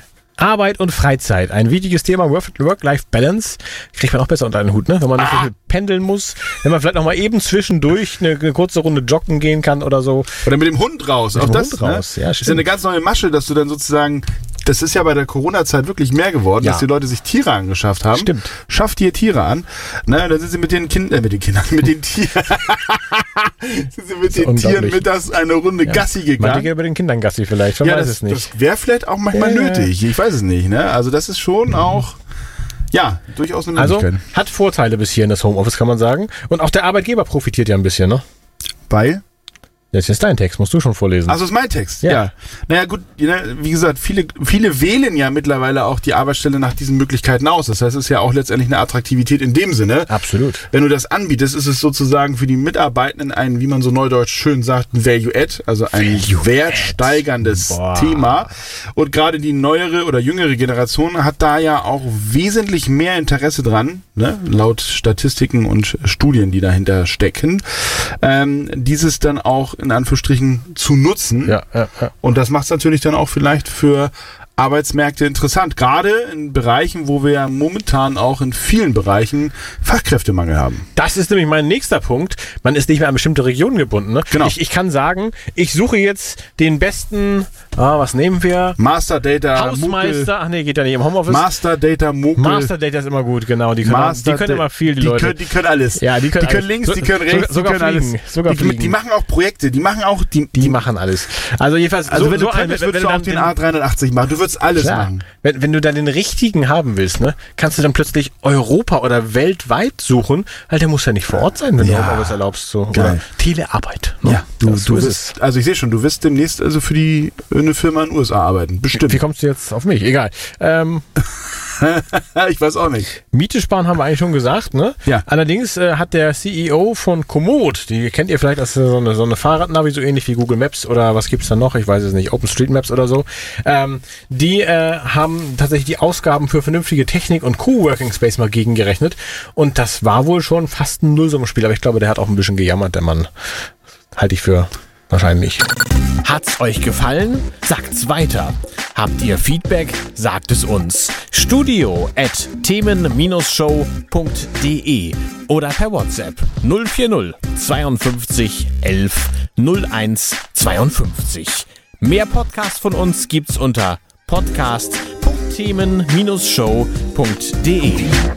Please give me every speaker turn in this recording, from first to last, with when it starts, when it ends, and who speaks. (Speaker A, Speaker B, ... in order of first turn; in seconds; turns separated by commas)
Speaker A: 0.4-10.3, Speaker B: 5.2-5.5, Speaker B: 10.4-26.7, Speaker A: 11.3-12.7, Speaker A: 18.1-18.5, Speaker A: 24.3-25.0, Speaker A: 25.8-28.5, Speaker B: 27.8-32.2, Speaker A: 29.3-29.9, Speaker B: 32.9-34.2, Speaker A: 33.7-38.2, Speaker B: 38.9-39.2, Speaker A: 39.9-41.4, Speaker B: 41.3-50.1, Speaker A: 50.1-50.6, Speaker B: 50.7-71.6, Speaker A: 56.1-58.5, Speaker A: 71.4-72.1, Speaker B: 72.2-80.8, Speaker A: 80.9-88.8, Speaker B: 84.3-84.5, Speaker B: 88.8-90.3, Speaker A: 89.5-91.5, Speaker B: 91.2-92.7, Speaker A: 92.4-95.4, Speaker B: 93.8-100.8, Speaker A: 95.9-99.0, Speaker A: 100.5-103.5, Speaker B: 102.1-105.2, Speaker A: 104.8-115.3, Speaker B: 111.8-112.4, Speaker B: 112.9-113.2, Speaker B: 114.2-119.2, Speaker A: 118.9-121.0, Speaker B: 121.6-123.1, Speaker A: 123.2-143.3, Speaker A: 144.1-145.7, Speaker A: 146.2-168.2